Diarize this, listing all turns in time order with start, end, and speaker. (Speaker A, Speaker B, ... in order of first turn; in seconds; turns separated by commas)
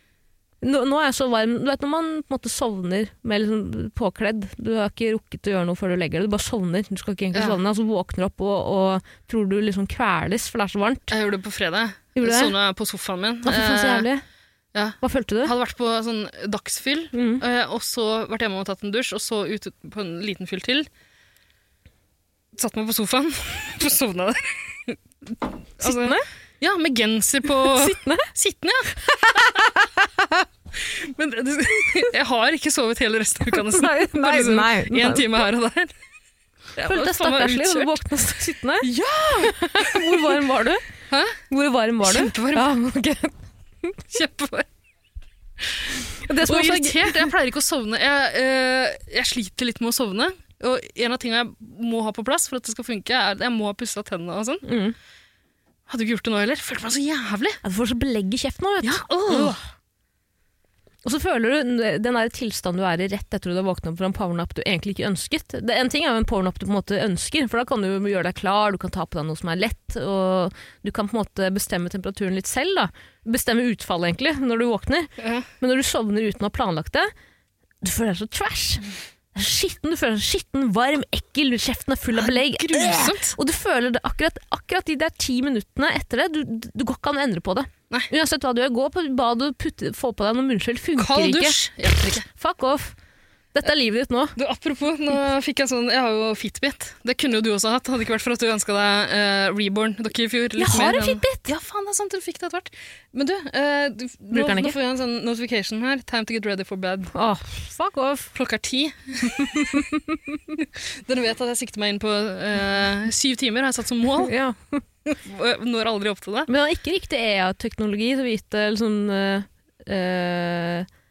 Speaker A: 0.6-11.1, Speaker B: 7.3-7.6, Speaker B: 11.1-14.1, Speaker A: 12.1-12.5, Speaker A: 13.4-14.2, Speaker B: 14.7-20.9, Speaker A: 15.0-15.5, Speaker A: 17.1-17.4, Speaker B: 22.5-29.6, Speaker A: 25.8-26.2, Speaker A: 27.7-28.3, Speaker A: 29.1-30.4, Speaker B: 30.7-35.9, Speaker A: 33.5-35.3, Speaker B: 36.8-38.0, Speaker A: 36.8-38.9, Speaker B: 38.8-40.3, Speaker A: 39.4-40.8, Speaker B: 41.1-41.4, Speaker A: 41.5-44.0, Speaker B: 42.0-42.7, Speaker B: 44.1-44.7, Speaker B: 45.6-54.6, Speaker A: 46.2-47.2, Speaker A: 54.6-55.0, Speaker B: 55.9-57.6, Speaker A: 57.6-59.6, Speaker B: 58.8-59.6, Speaker A: 61.0-77.1, Speaker B: 75.2-75.5, Speaker A: 77.8-93.0, Speaker B: 82.1-83.4, Speaker B: 91.0-92.2, Speaker A: 93.5-94.4, Speaker B: 94.4-107.1, Speaker A: 100.6-101.5, Speaker A: 104.3-104.8, Speaker A: 107.1-108.3, Speaker B: 108.3-109.8, Speaker A: 109.5-110.2, Speaker B: 110.6-114.3, Speaker A: 114.2-115.2, Speaker B: 115.2-116.5, Speaker A: 116.5-120.9